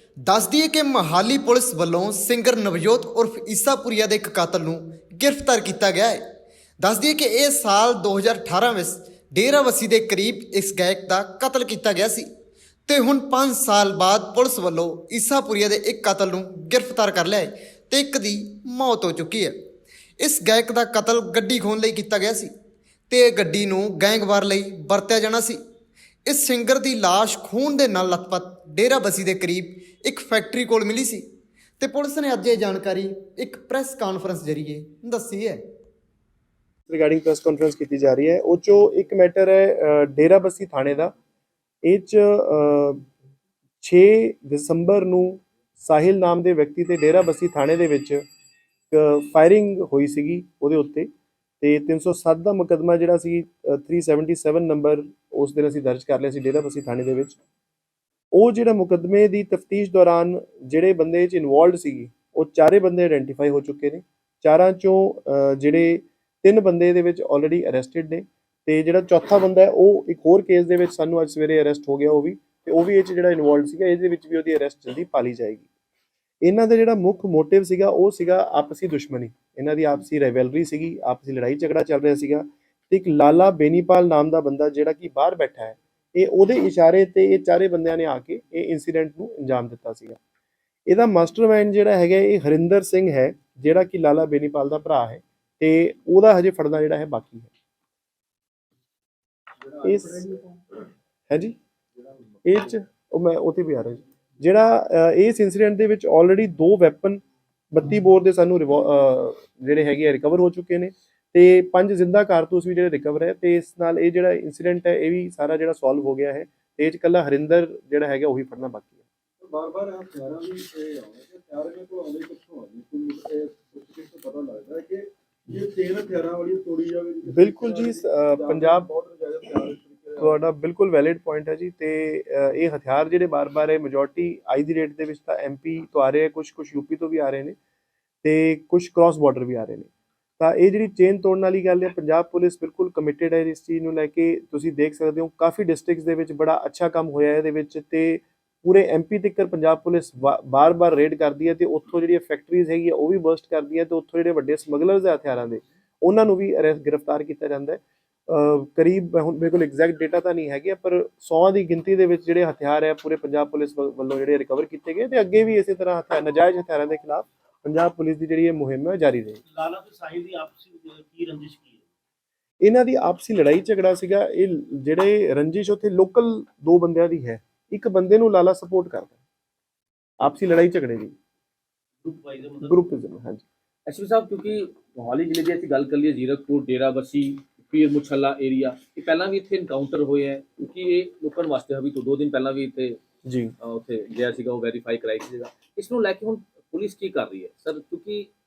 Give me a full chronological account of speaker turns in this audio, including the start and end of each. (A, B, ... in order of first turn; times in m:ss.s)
0:00.2-0:06.2 A
0:06.8-0:12.3 A
0:12.9-0:19.5 A
0:20.2-0:22.5 A
0:23.1-0:25.6 A
0:26.2-0:31.2 A
0:31.8-0:35.6 A
0:36.9-0:41.1 B
0:41.8-0:43.0 B
0:43.8-0:48.2 B
0:48.9-0:51.1 B
0:51.6-0:57.4 B
0:58.3-1:15.6 B
1:16.4-1:30.2 B
1:30.9-1:37.5 B
1:39.6-1:40.8 C
1:39.8-1:40.2 B
1:41.3-1:41.6 B
1:41.9-1:42.7 C
1:42.4-1:59.0 B
1:59.4-2:10.4 C
2:07.3-2:08.9 B
2:10.2-2:17.6 B
2:18.2-2:49.4 B
2:49.5-2:51.8 D
2:52.6-2:59.1 B
3:00.2-3:01.1 B
3:02.0-3:02.3 D
3:02.6-3:03.4 B
3:03.8-3:13.0 E
3:13.2-3:13.5 B
3:13.6-3:18.3 E